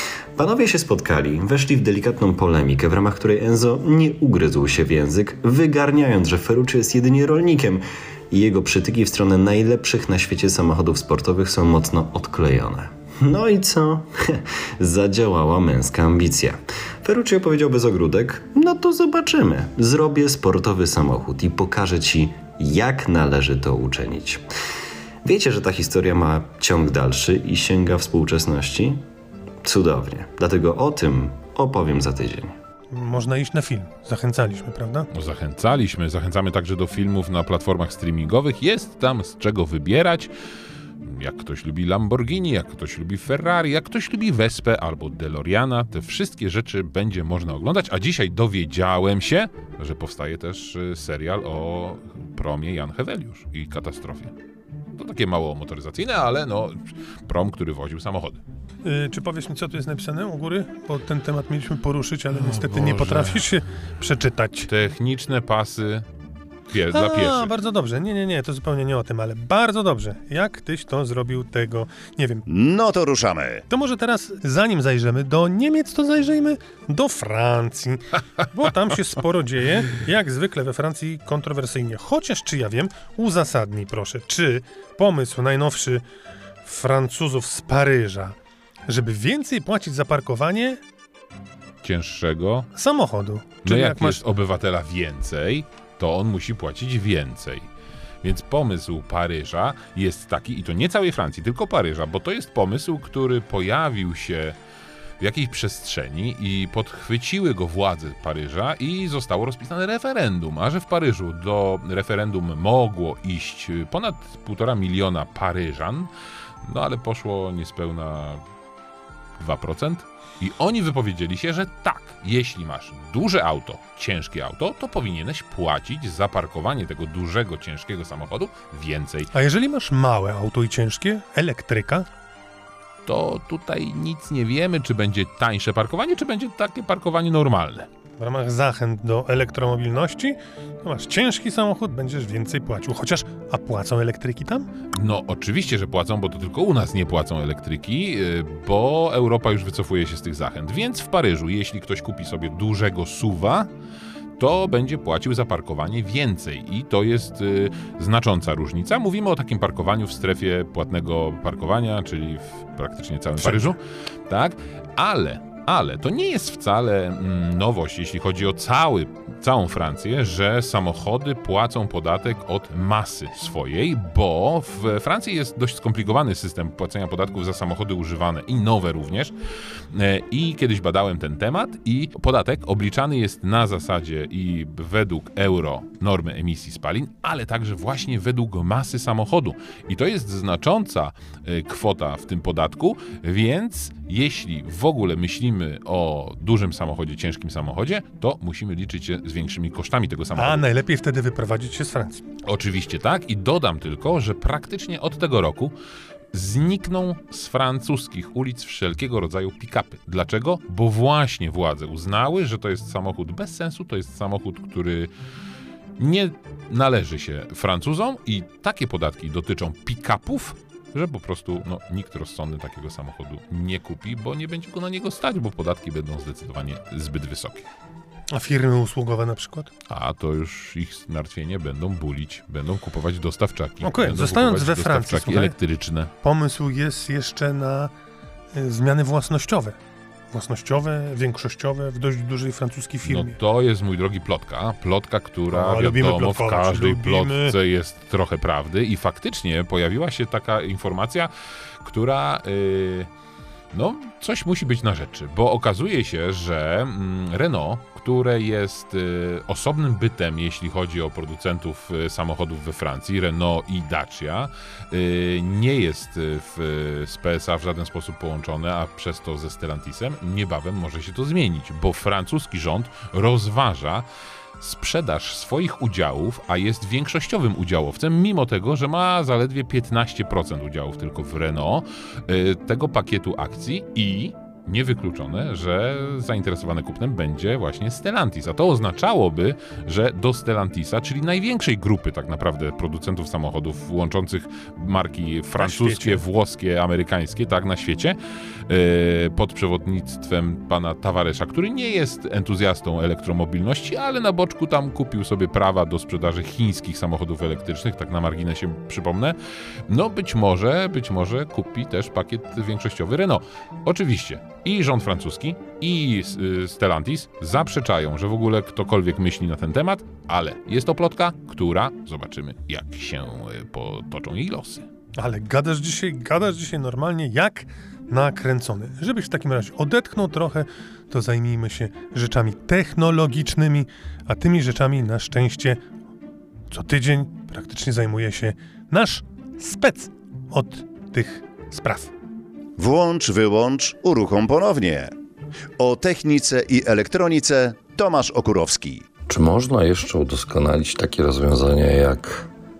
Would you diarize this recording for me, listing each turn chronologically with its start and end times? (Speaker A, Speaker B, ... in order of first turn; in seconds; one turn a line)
Speaker A: 0.3-24.4
Speaker A: 25.2-29.0
Speaker A: 29.6-32.5
Speaker B: 32.9-35.1
Speaker C: 35.1-40.3
Speaker C: 41.0-54.3
Speaker C: 55.0-58.4
Speaker B: 58.8-64.7
Speaker C: 62.3-63.5
Speaker C: 64.6-66.0
Speaker C: 66.7-67.5
Speaker B: 66.9-72.4
Speaker D: 72.5-73.6
Speaker B: 73.7-86.0
Speaker B: 86.6-88.3
Speaker B: 88.9-90.8
Speaker C: 91.8-92.7
Speaker B: 92.7-94.2
Speaker C: 93.6-97.7
Speaker C: 98.2-104.5
Speaker C: 105.2-116.1
Speaker C: 116.6-118.4
Speaker C: 119.4-129.3
Speaker B: 129.3-132.1
Speaker C: 133.1-137.9
Speaker B: 138.2-144.7
Speaker C: 144.9-153.7
Speaker C: 154.4-179.3
Speaker B: 163.4-163.7
Speaker C: 179.9-200.6
Speaker B: 200.3-202.2
Speaker C: 202.4-205.7
Speaker C: 206.3-215.1
Speaker C: 216.0-227.7
Speaker B: 228.3-229.7
Speaker C: 229.9-236.1
Speaker B: 233.8-235.6
Speaker B: 236.2-237.9
Speaker B: 238.5-239.8
Speaker B: 240.3-243.3
Speaker C: 243.0-251.3
Speaker B: 245.5-247.6
Speaker C: 251.8-253.1
Speaker C: 253.7-274.0
Speaker C: 274.6-298.2
Speaker B: 295.6-296.2
Speaker C: 298.7-309.4
Speaker C: 309.9-324.9
Speaker B: 325.2-335.8
Speaker B: 336.7-342.1
Speaker D: 342.8-345.1
Speaker D: 345.8-349.0
Speaker E: 349.3-352.5